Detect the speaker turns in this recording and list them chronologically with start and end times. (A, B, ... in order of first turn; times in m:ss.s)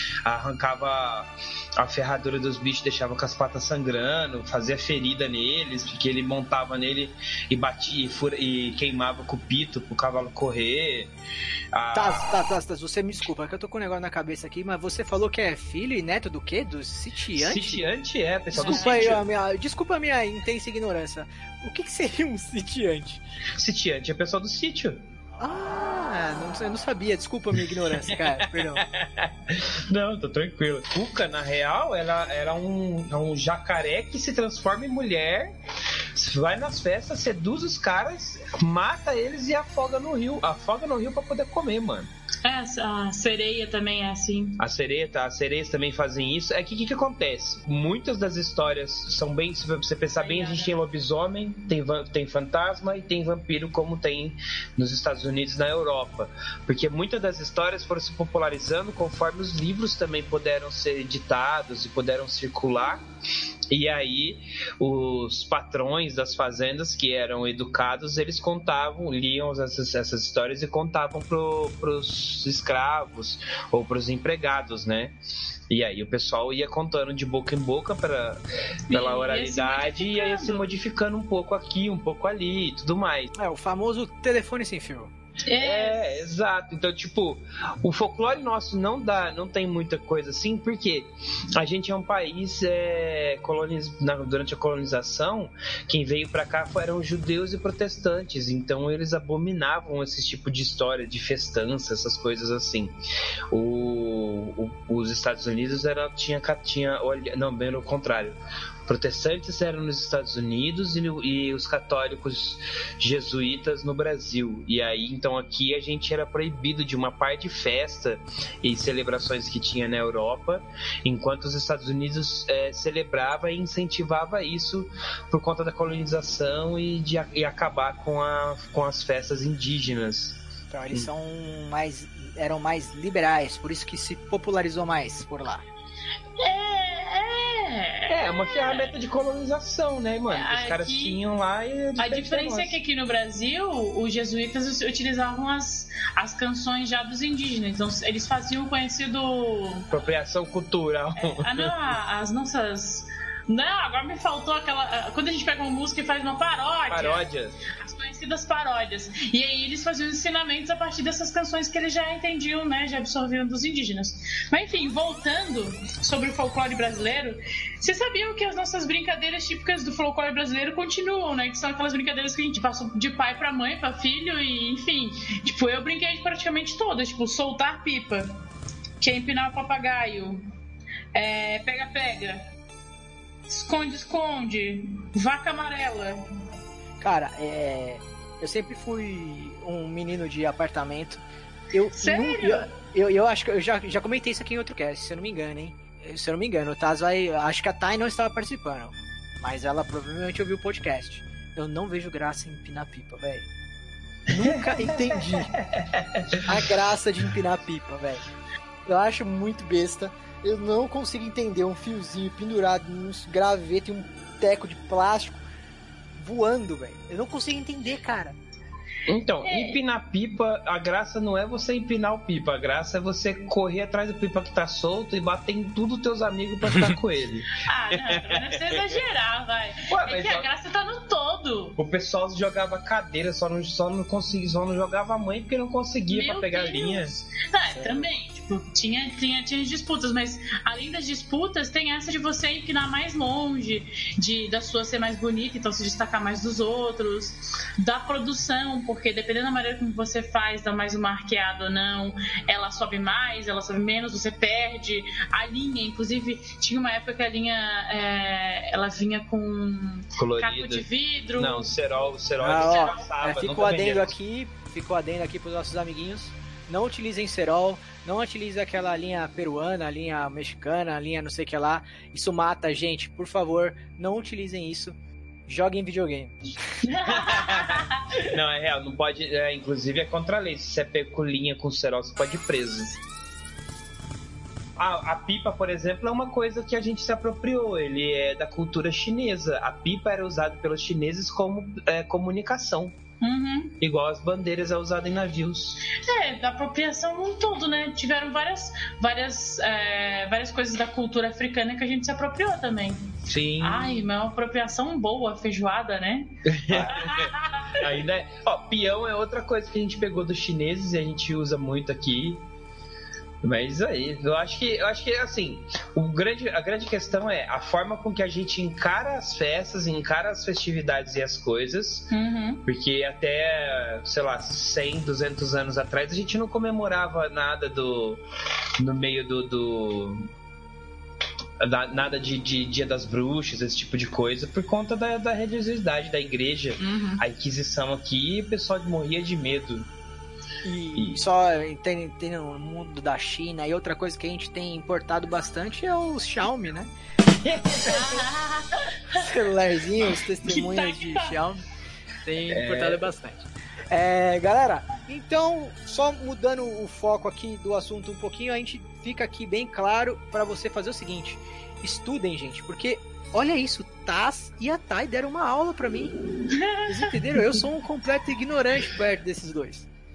0:00.2-0:11.1 A
0:11.7-0:12.4 A
0:11.9-0:17.9 B
0:17.3-0:19.2 A
0:18.5-0:23.2 B
0:18.6-0:19.1 C
0:23.6-0:25.0 A
0:25.4-0:28.8 B
0:27.8-0:35.6 A
0:36.1-0:42.1 A
0:42.4-0:44.6 C
0:44.6-1:03.0 A
0:50.2-0:50.8 C
1:03.7-1:15.2 A
1:15.7-1:23.3 A
1:18.9-1:20.7 C
1:23.3-1:25.1 B
1:25.4-1:26.3 C
1:25.6-1:43.0 A
1:43.5-2:11.1 A
2:10.7-2:15.6 B
2:16.4-2:18.9 C
2:18.1-2:22.8 A
2:20.3-2:21.2 C
2:22.0-2:29.9 C
2:29.9-2:31.9 A
2:31.2-2:37.2 C
2:36.9-2:37.6 A
2:37.8-2:58.3 C
2:59.0-3:00.4 C
3:01.1-3:02.4 C
3:03.5-3:06.2 C
3:07.0-3:23.4 B
3:12.0-3:12.7 C
3:24.3-3:25.5 B
3:24.4-3:26.4 A
3:26.4-3:28.3 B
3:28.8-3:35.4 B
3:36.2-3:38.4 B
3:39.1-3:49.0 A
3:39.4-3:39.8 C
3:47.6-3:51.8 C
3:49.9-3:50.5 A
3:51.8-3:57.1 A
3:56.1-4:21.7 C
3:57.6-3:58.1 B
4:20.2-4:24.1 A
4:22.4-4:36.4 B
4:36.8-4:38.2 C
4:37.1-4:43.0 A
4:44.8-4:53.0 A
4:53.2-4:53.7 C
4:53.8-4:55.8 A
4:55.9-5:07.9 C
5:03.3-5:04.0 A
5:06.4-5:12.4 A
5:13.4-5:22.1 A
5:22.1-5:22.6 C
5:22.6-5:28.2 A
5:28.8-5:30.3 A
5:31.6-5:39.9 A
5:36.8-5:37.2 C
5:40.6-5:46.9 B
5:47.4-5:48.2 A
5:47.8-5:49.3 C
5:49.1-5:51.6 B
5:50.4-5:51.4 C
5:52.2-6:06.1 B
5:52.4-5:53.1 A
6:06.5-6:07.0 C
6:06.8-6:09.9 B